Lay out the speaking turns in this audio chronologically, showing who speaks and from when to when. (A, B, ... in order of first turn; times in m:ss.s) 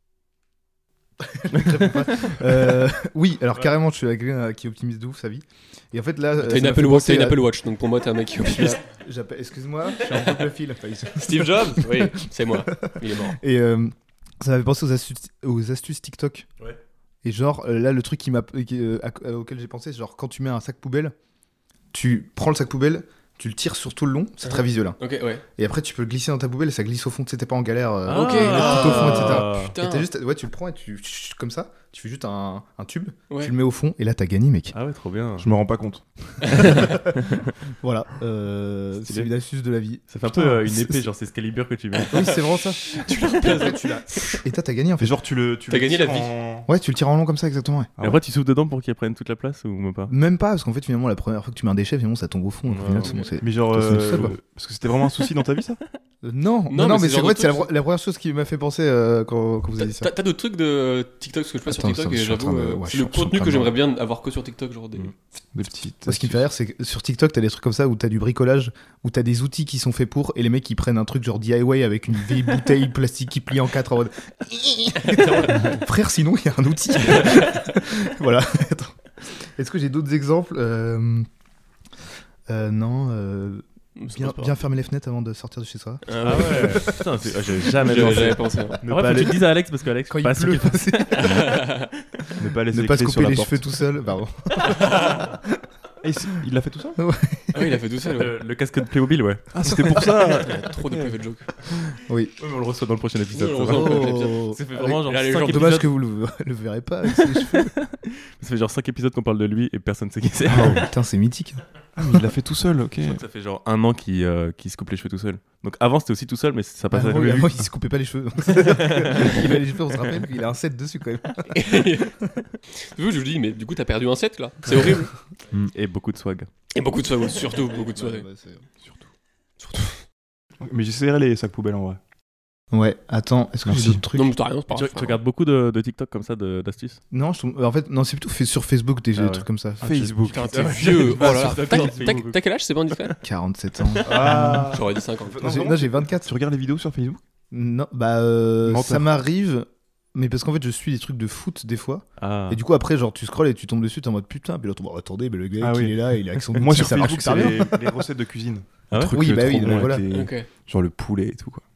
0:01.2-0:07.5 A
0:06.4-0:08.8 B
0:08.4-0:16.5 A
0:11.1-0:13.4 B
0:17.2-0:21.1 A
0:21.9-0:25.0 A
0:24.4-0:25.4 B
0:25.6-0:34.7 A
0:28.1-0:29.7 C
0:28.1-0:30.1 B
0:34.7-0:35.5 C
0:35.4-0:36.0 D
0:36.4-0:41.0 A
0:36.5-0:37.5 C
0:40.1-0:42.4 C
0:42.1-0:42.8 A
0:42.8-0:44.4 B
0:43.4-0:45.2 A
0:45.0-0:46.7 D
0:45.7-0:46.3 B
0:46.7-0:47.9 A
0:48.0-0:50.1 C
0:50.1-0:54.4 A
0:52.7-0:53.1 C
0:53.0-0:53.3 B
0:53.4-0:55.8 D
0:53.9-0:54.3 C
0:56.2-1:00.1 A
0:56.7-0:57.7 B
0:59.8-1:05.1 B
1:01.7-1:03.7 A
1:05.5-1:06.4 D
1:06.0-1:21.3 A
1:15.0-1:15.7 B
1:22.5-1:27.0 A
1:24.0-1:24.5 B
1:26.0-1:27.0 B
1:26.2-1:31.6 C
1:27.7-1:28.8 B
1:28.8-1:29.3 A
1:28.8-1:29.4 D
1:30.1-1:31.6 A
1:31.2-1:31.9 B
1:32.4-1:33.6 D
1:32.7-1:35.2 A
1:34.7-1:35.2 B
1:36.0-1:37.0 D
1:37.0-1:37.7 A
1:37.5-1:38.3 B
1:38.1-1:40.1 C
1:39.5-1:41.1 D
1:40.2-1:41.5 B
1:42.0-1:42.3 A
1:42.4-1:45.9 C
1:43.3-1:45.8 B
1:43.7-1:47.7 A
1:47.1-1:50.9 C
1:50.5-1:50.8 D
1:50.5-1:51.6 A
1:52.0-1:53.2 D
1:53.0-1:57.6 C
1:56.9-2:02.4 A
1:58.5-1:59.5 C
2:01.5-2:02.2 B
2:02.7-2:05.1 B
2:05.7-2:06.5 C
2:06.7-2:08.2 B
2:07.5-2:08.6 A
2:08.8-2:09.1 D
2:09.6-2:10.0 B
2:10.6-2:12.0 D
2:12.7-2:14.3 A
2:13.6-2:14.0 D
2:14.1-2:15.2 B
2:14.7-2:17.0 C
2:17.1-2:20.2 A
2:19.2-2:19.4 C
2:19.8-2:22.2 D
2:20.3-2:23.2 B
2:20.5-2:22.4 C
2:23.2-2:24.8 A
2:23.8-2:24.6 C
2:24.0-2:27.2 D
2:24.3-2:25.6 B
2:25.4-2:26.3 A
2:27.5-2:38.0 A
2:28.6-2:29.1 D
2:32.2-2:32.6 C
2:35.6-2:36.0 D
2:36.5-2:41.6 D
2:38.9-2:39.8 C
2:39.1-2:40.0 A
2:40.1-2:40.5 B